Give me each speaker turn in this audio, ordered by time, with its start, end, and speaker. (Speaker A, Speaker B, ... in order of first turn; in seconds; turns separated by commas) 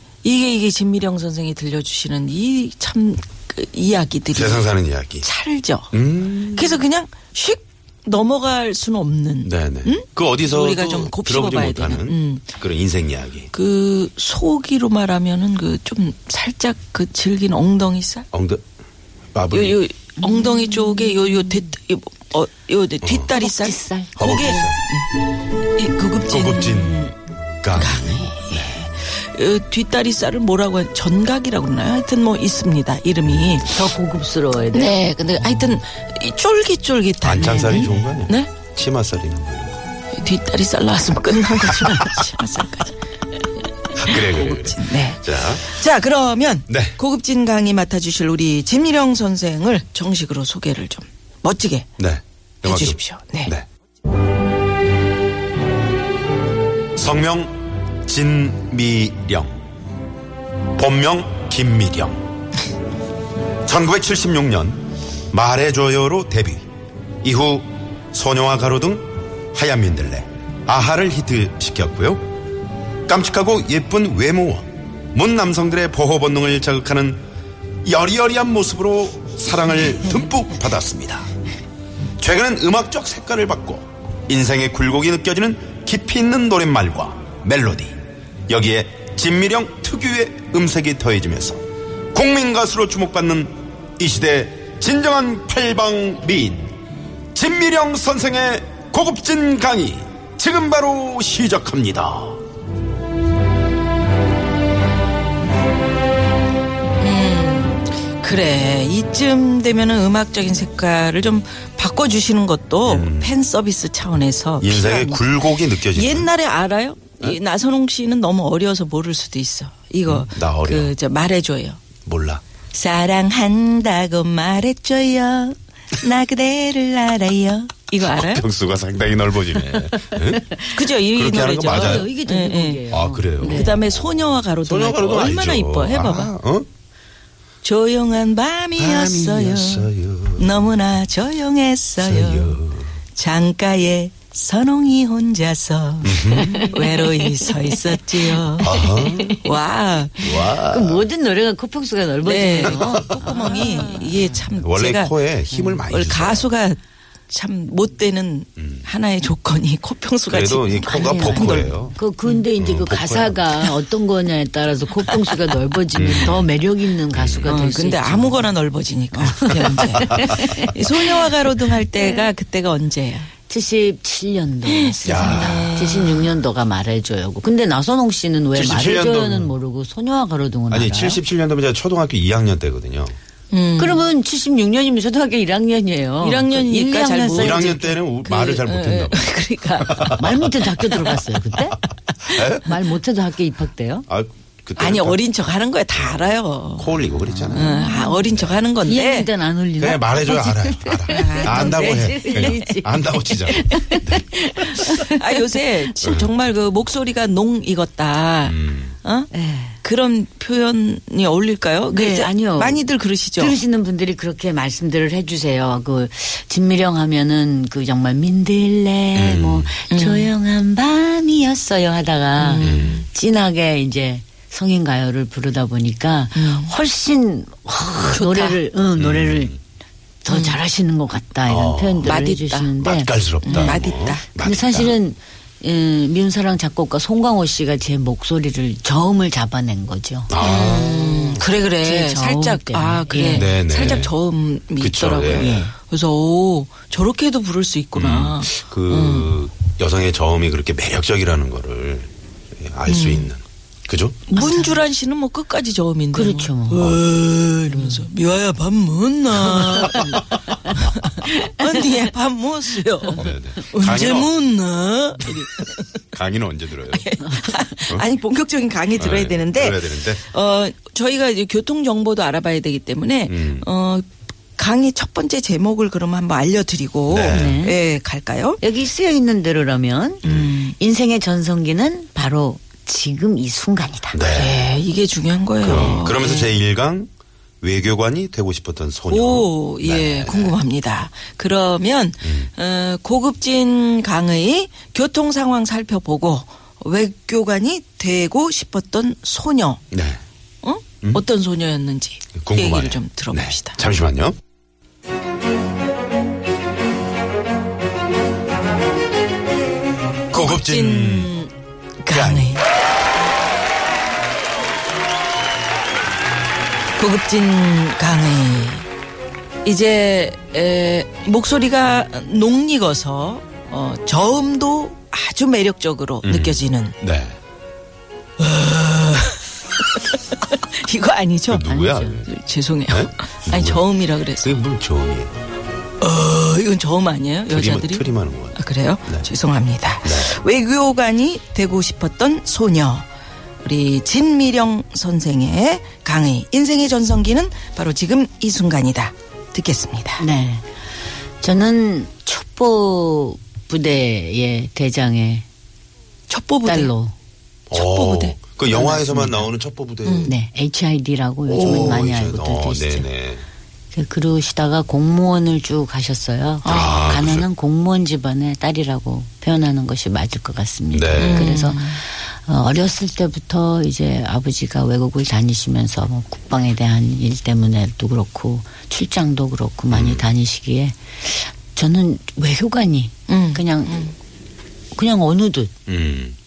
Speaker A: 0.2-12.5, Speaker B: 4.3-5.2, Speaker B: 5.9-6.8, Speaker B: 9.4-13.5, Speaker A: 13.5-18.3, Speaker B: 18.3-18.6, Speaker B: 19.3-19.8, Speaker A: 19.5-25.1, Speaker C: 20.2-21.2, Speaker B: 23.0-23.3, Speaker C: 23.3-24.7, Speaker B: 24.1-24.8, Speaker A: 25.7-27.2, Speaker B: 26.2-27.1, Speaker B: 27.6-28.9, Speaker A: 27.7-33.9, Speaker B: 33.3-33.7, Speaker C: 33.7-35.0, Speaker A: 34.7-38.5, Speaker B: 37.2-39.8, Speaker C: 37.3-38.1, Speaker A: 40.1-43.0, Speaker B: 41.8-42.1, Speaker A: 43.9-51.9, Speaker B: 44.0-45.8, Speaker B: 46.7-47.0, Speaker B: 52.0-53.6, Speaker A: 52.6-53.5, Speaker B: 56.9-59.6, Speaker B: 60.8-62.2, Speaker B: 63.6-66.6, Speaker B: 67.2-72.2, Speaker B: 73.1-77.2, Speaker B: 77.8-81.3, Speaker B: 82.2-88.0, Speaker B: 88.5-91.6, Speaker B: 92.1-96.7, Speaker B: 97.3-102.4, Speaker A: 107.0-121.8, Speaker B: 112.8-113.4, Speaker B: 114.6-116.3, Speaker B: 120.1-120.9, Speaker B: 122.0-122.4, Speaker A: 122.7-128.4, Speaker B: 128.0-132.1, Speaker C: 129.5-130.8, Speaker A: 130.7-136.3, Speaker C: 131.7-133.8, Speaker B: 132.9-136.7, Speaker A: 137.6-142.6, Speaker B: 138.8-140.6, Speaker B: 142.0-142.9, Speaker A: 143.1-150.4, Speaker B: 146.0-146.8, Speaker C: 146.2-149.4, Speaker B: 148.6-149.4, Speaker B: 150.2-151.1, Speaker C: 150.3-154.4, Speaker A: 152.2-156.8, Speaker B: 152.6-153.4, Speaker B: 154.5-156.5, Speaker A: 157.3-162.4, Speaker B: 158.6-158.8, Speaker B: 160.3-162.0, Speaker C: 160.8-168.5, Speaker B: 162.6-163.5, Speaker B: 165.9-166.5, Speaker B: 167.1-167.5, Speaker A: 167.4-173.3, Speaker C: 169.3-170.7, Speaker B: 169.9-170.9, Speaker C: 173.5-181.2, Speaker A: 174.7-176.4, Speaker B: 175.1-175.8, Speaker B: 178.5-179.5, Speaker B: 180.7-183.2, Speaker A: 183.5-184.1, Speaker C: 183.8-187.8, Speaker A: 186.2-190.4, Speaker B: 187.3-191.1, Speaker C: 190.1-194.1, Speaker B: 192.3-192.8, Speaker B: 194.1-195.2, Speaker A: 194.8-199.3, Speaker B: 195.9-198.6, Speaker C: 197.3-198.2, Speaker C: 198.8-205.6, Speaker B: 199.8-204.3, Speaker A: 201.1-202.8, Speaker A: 205.0-209.3, Speaker B: 206.0-206.3, Speaker B: 208.4-208.9, Speaker C: 209.3-209.8, Speaker A: 209.8-213.6, Speaker C: 211.9-212.8, Speaker C: 213.4-229.6, Speaker B: 219.1-219.8, Speaker A: 219.9-220.3, Speaker A: 222.4-223.0, Speaker B: 222.6-223.0, Speaker A: 226.3-226.7, Speaker A: 228.0-228.6, Speaker B: 229.0-229.6, Speaker C: 230.2-233.8, Speaker A: 230.3-230.6, Speaker B: 231.5-232.2, Speaker A: 232.0-232.8, Speaker B: 232.8-234.9, Speaker A: 233.4-234.2, Speaker C: 234.3-240.7, Speaker B: 240.3-241.5, Speaker A: 240.4-249.3, Speaker C: 241.8-243.6, Speaker B: 243.3-244.1, Speaker B: 244.8-245.6, Speaker C: 245.4-245.7, Speaker B: 247.9-254.2, Speaker A: 252.9-253.3, Speaker A: 254.3-265.9, Speaker C: 254.3-254.8, Speaker C: 256.1-257.0, Speaker C: 257.7-258.0, Speaker C: 259.7-260.1, Speaker B: 263.1-264.4, Speaker B: 266.1-267.3, Speaker A: 266.9-274.1, Speaker B: 268.9-270.2, Speaker B: 273.3-273.6, Speaker A: 274.6-278.6, Speaker B: 277.1-277.6, Speaker C: 277.3-277.8, Speaker C: 278.6-284.2, Speaker A: 280.2-280.7, Speaker B: 280.2-280.5, Speaker B: 284.1-284.7, Speaker A: 284.3-286.5, Speaker B: 285.6-287.1, Speaker C: 285.7-286.0, Speaker B: 287.6-290.6, Speaker A: 289.1-299.8, Speaker B: 292.2-292.5, Speaker B: 299.9-300.2, Speaker A: 300.6-303.8, Speaker B: 302.4-304.4, Speaker A: 310.3-311.5, Speaker B: 310.3-311.3, Speaker A: 312.0-312.6, Speaker B: 312.1-312.6, Speaker A: 316.9-318.9, Speaker A: 319.6-327.0, Speaker B: 326.2-327.4, Speaker A: 328.4-334.6, Speaker B: 331.5-332.3, Speaker B: 332.9-335.3, Speaker A: 336.0-343.1, Speaker B: 337.5-339.3, Speaker B: 340.0-340.3, Speaker A: 343.6-350.2, Speaker C: 350.2-350.6, Speaker C: 351.4-355.4, Speaker A: 356.3-356.9, Speaker C: 356.6-357.1, Speaker B: 357.7-360.3, Speaker A: 357.7-359.4, Speaker A: 360.0-360.3, Speaker C: 360.2-363.1, Speaker B: 361.4-363.4, Speaker C: 363.9-384.1, Speaker A: 366.6-367.4, Speaker B: 366.6-367.5, Speaker B: 370.9-371.5, Speaker A: 371.1-372.0, Speaker B: 379.9-380.3, Speaker A: 383.3-384.1, Speaker C: 384.9-385.7, Speaker B: 385.9-386.4